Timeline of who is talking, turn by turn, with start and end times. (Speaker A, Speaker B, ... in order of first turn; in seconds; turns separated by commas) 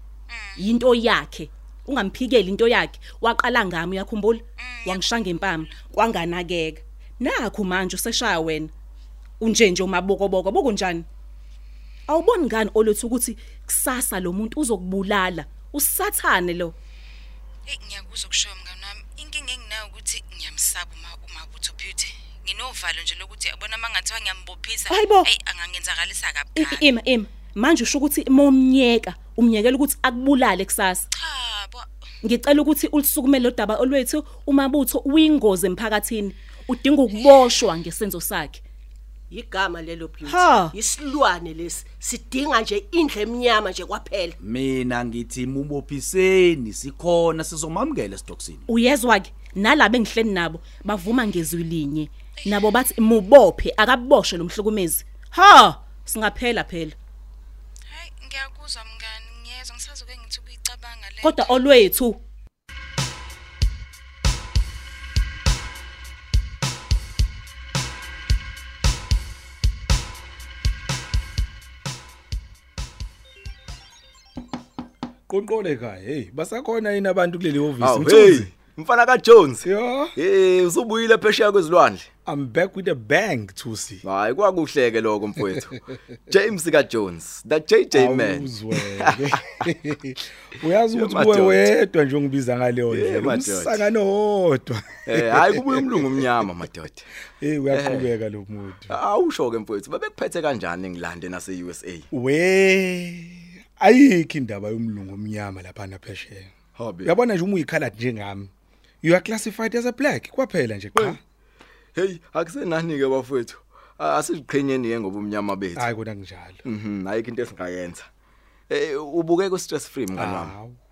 Speaker A: 0.3-0.7, Speaker B: 0.6-8.7, Speaker A: 4.6-5.7, Speaker B: 9.4-11.1, Speaker B: 12.1-16.7, Speaker A: 17.7-26.9, Speaker B: 24.9-25.3, Speaker B: 26.5-31.0, Speaker A: 31.1-31.9, Speaker B: 32.2-38.6, Speaker C: 39.3-44.4, Speaker B: 40.2-40.7, Speaker D: 44.4-48.6, Speaker B: 48.7-57.0, Speaker A: 52.4-52.7, Speaker A: 57.9-61.5, Speaker B: 61.2-62.2, Speaker E: 75.3-78.5, Speaker F: 77.8-82.1, Speaker E: 79.6-80.1, Speaker E: 82.2-84.0, Speaker F: 84.0-89.3, Speaker E: 87.9-96.5, Speaker F: 90.9-91.7, Speaker F: 92.9-93.8, Speaker F: 95.1-97.1, Speaker E: 97.4-98.9, Speaker F: 97.7-98.1, Speaker F: 98.9-102.1, Speaker E: 102.1-106.5, Speaker F: 106.7-107.1, Speaker E: 107.0-111.2, Speaker F: 111.9-115.9, Speaker E: 115.7-116.6, Speaker F: 116.7-118.1, Speaker F: 118.7-120.5, Speaker E: 120.1-120.8